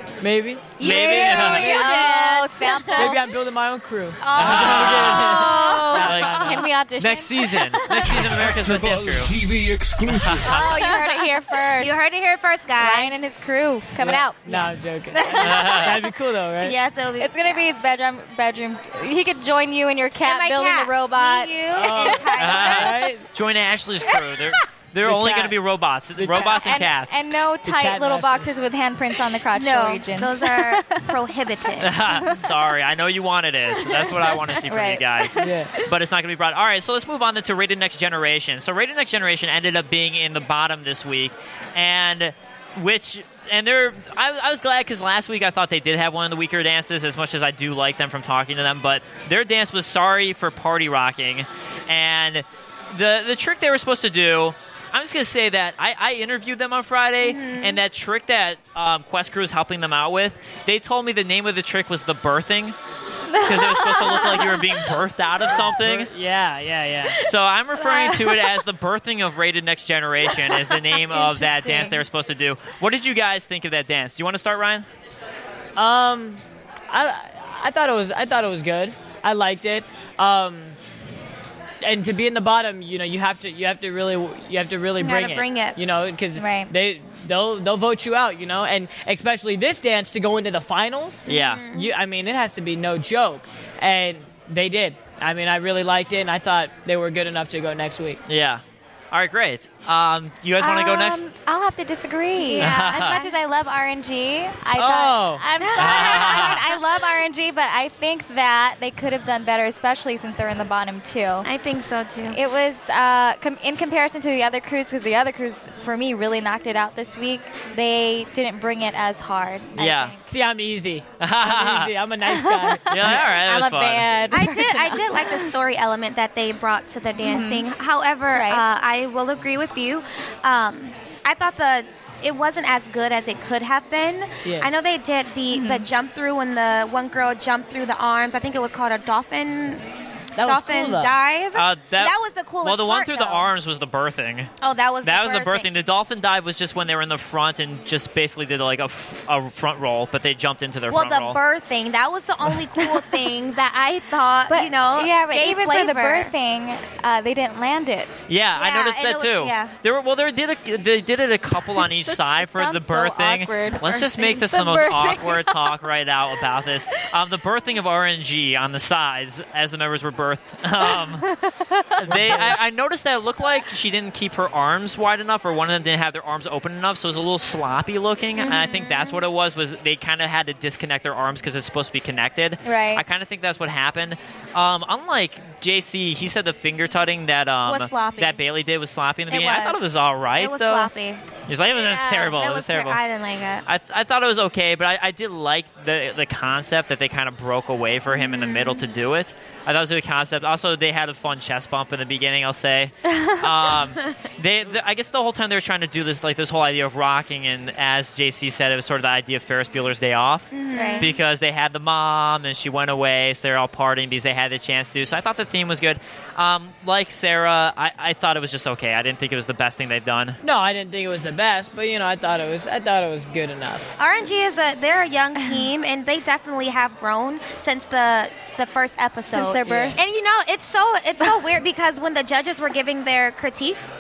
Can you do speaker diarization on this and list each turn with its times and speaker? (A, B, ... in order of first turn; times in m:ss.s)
0:00.2-0:01.9 A
0:00.8-0:03.2 B
0:00.8-0:01.9 C
0:01.1-0:03.2 D
0:03.0-0:06.5 A
0:04.2-0:06.6 B
0:04.4-0:09.4 C
0:05.4-0:07.8 D
0:07.7-0:08.3 B
0:08.2-0:10.6 E
0:10.0-0:10.6 C
0:10.4-0:11.9 D
0:10.5-0:13.2 B
0:12.8-0:15.8 D
0:14.0-0:16.8 A
0:15.4-0:16.1 C
0:16.6-0:17.6 B
0:17.2-0:22.3 D
0:20.2-0:23.0 B
0:21.7-0:23.3 A
0:22.4-0:27.2 C
0:24.1-0:24.4 B
0:25.0-0:25.6 A
0:26.2-0:26.7 A
0:26.3-0:31.1 D
0:27.6-0:28.5 A
0:29.5-0:32.0 B
0:31.8-1:02.8 C
0:32.1-0:32.4 D
0:34.7-0:35.4 D
0:35.4-0:35.8 A
0:57.2-0:57.8 B
1:03.3-1:04.8 D
1:03.4-1:06.1 C
1:05.6-1:07.2 A
1:07.2-1:14.9 C
1:07.8-1:08.6 D
1:10.6-1:12.0 D
1:15.8-1:20.8 A
1:21.8-1:38.2 A
1:25.0-1:25.8 B
1:26.4-1:26.7 D
1:31.3-1:31.7 C
1:31.3-1:31.9 B
1:38.3-1:41.2 C
1:40.6-1:51.5 D
1:42.4-1:43.4 B
1:42.6-1:43.2 C
1:44.8-1:45.5 A
1:45.6-1:46.6 B
1:45.8-1:46.6 C
1:51.4-1:52.4 B
1:52.3-2:00.2 D
1:59.8-2:00.2 C
2:00.2-2:03.2 A
2:01.2-2:01.9 C
2:02.4-2:05.5 D
2:02.9-2:04.2 C
2:04.3-2:19.8 B
2:07.2-2:07.7 D
2:08.3-2:08.6 D
2:14.4-2:14.7 A
2:15.5-2:15.9 D
2:20.4-2:21.1 A
2:20.4-2:23.5 B
2:21.6-2:24.5 C
2:24.6-2:25.7 B
2:25.0-2:31.4 C
2:30.9-2:36.3 B
2:34.5-2:38.1 D
2:38.3-2:51.3 C
2:38.6-2:39.7 B
2:42.1-2:45.8 D
2:50.8-2:52.2 D
2:52.0-2:52.6 A
2:52.0-3:10.9 C
2:58.4-2:59.2 B
3:02.6-3:03.0 D
3:07.6-3:08.4 B
3:09.3-3:09.8 B
3:10.4-3:11.2 B
3:11.5-3:13.0 C
3:11.8-3:12.2 D
3:11.8-3:13.7 B
3:13.7-3:40.4 C
3:18.1-3:18.9 B
3:23.6-3:24.1 B
3:30.5-3:31.2 B
3:30.7-3:31.2 D
3:40.4-3:43.9 A
3:44.0-3:53.8 B
3:49.3-3:50.0 D
3:49.7-3:50.0 A